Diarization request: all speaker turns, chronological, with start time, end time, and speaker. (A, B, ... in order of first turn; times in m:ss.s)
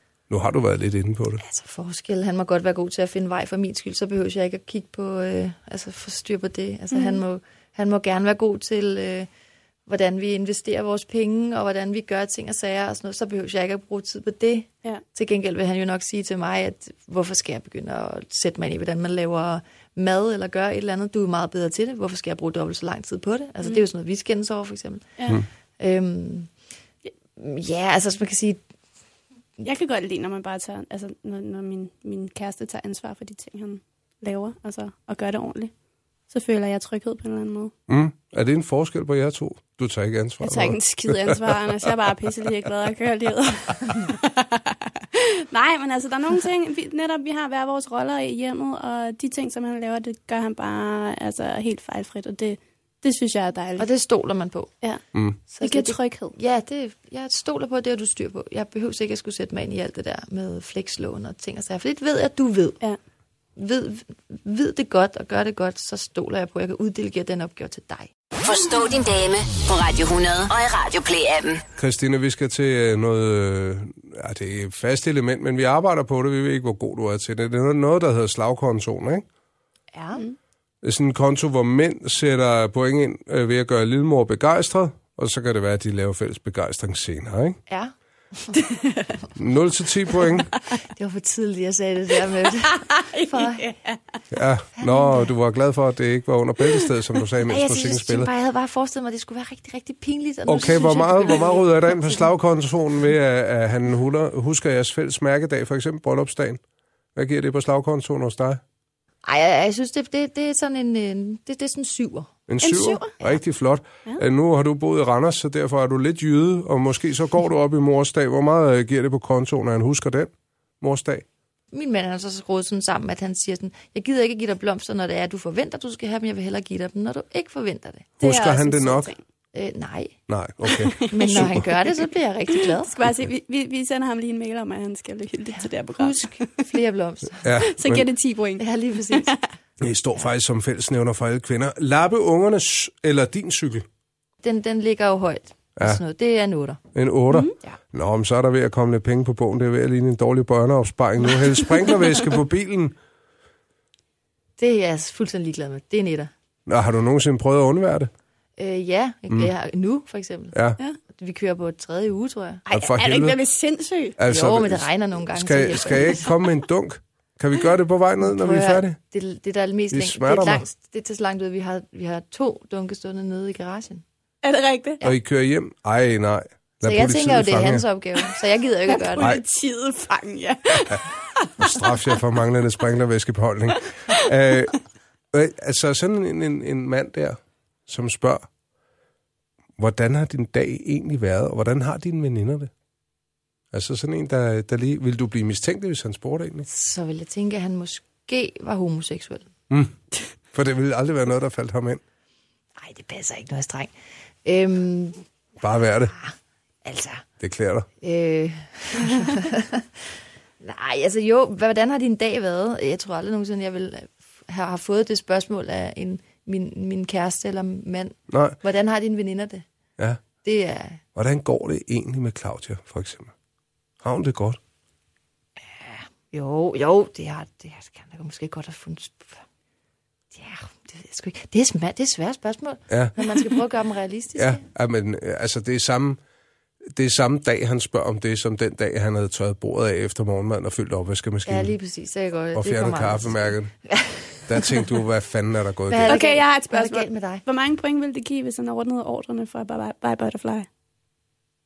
0:00.3-0:01.4 A
0:01.4-0:09.3 B
0:06.9-0:07.2 C
0:09.9-0:25.1 B
0:25.8-0:26.5 B
0:27.4-0:28.6 B
0:29.6-0:35.7 C
0:36.3-0:37.7 C
0:37.9-0:42.5 A
0:40.4-0:53.9 C
0:53.8-0:54.7 B
0:55.5-1:02.8 B
0:55.6-0:56.4 C
1:03.6-1:08.1 B
1:08.4-1:11.6 D
1:11.8-1:19.2 A
1:19.9-1:20.2 B
1:20.8-1:27.6 A
1:27.7-1:28.6 B
1:28.6-1:29.1 C
1:29.4-1:30.5 A
1:30.7-1:33.7 B
1:32.7-1:34.0 C
1:34.3-1:38.3 A
1:34.8-1:35.3 B
1:37.4-1:42.2 B
1:40.5-1:46.6 A
1:47.1-1:48.6 A
1:49.2-1:52.3 B
1:52.5-2:01.2 A
1:52.6-1:53.1 C
2:01.7-2:08.1 B
2:08.2-2:09.2 C
2:08.2-2:09.1 A
2:09.5-2:10.2 B
2:10.3-2:11.7 A
2:10.8-2:11.6 C
2:11.1-2:13.0 B
2:12.6-2:16.5 C
2:15.6-2:17.5 B
2:17.4-2:18.1 A
2:17.6-2:19.4 C
2:18.6-2:19.4 B
2:19.8-2:23.9 A
2:24.4-2:26.8 B
2:26.9-2:32.9 A
2:27.3-2:27.6 C
2:34.6-2:36.3 B
2:36.7-2:38.1 A
2:38.6-2:40.5 B
2:40.5-2:40.8 A
2:41.1-2:42.6 B
2:42.6-2:44.2 C
2:42.7-2:43.4 A
2:44.2-2:49.0 A
2:44.2-2:46.3 B
2:48.2-2:54.0 B
2:49.9-2:50.6 A
2:54.4-2:55.0 C
2:55.0-2:57.8 A
2:56.8-2:59.3 B
2:58.9-3:02.1 C
3:01.6-3:04.8 A
3:05.3-3:08.5 A
3:09.8-3:12.7 A
3:13.7-3:16.7 A
3:16.7-3:19.5 B
3:19.7-3:20.0 A
3:20.5-3:22.0 A
3:22.8-3:23.9 B
3:24.4-3:25.2 B
3:25.6-3:26.1 A
3:26.1-3:27.2 B
3:27.4-3:27.9 A
3:28.0-3:30.0 B
3:30.6-3:39.6 B
3:38.3-3:38.6 A
3:40.4-3:41.0 B
3:41.1-3:43.3 A
3:44.0-3:44.6 A
3:45.6-3:49.4 B
3:50.3-3:54.6 B
3:52.9-3:53.2 A
3:54.4-3:56.2 A
3:56.9-4:01.7 A
4:01.4-4:04.9 B
4:02.5-4:03.7 A
4:04.5-4:06.2 A
4:05.9-4:07.4 B
4:06.1-4:10.6 C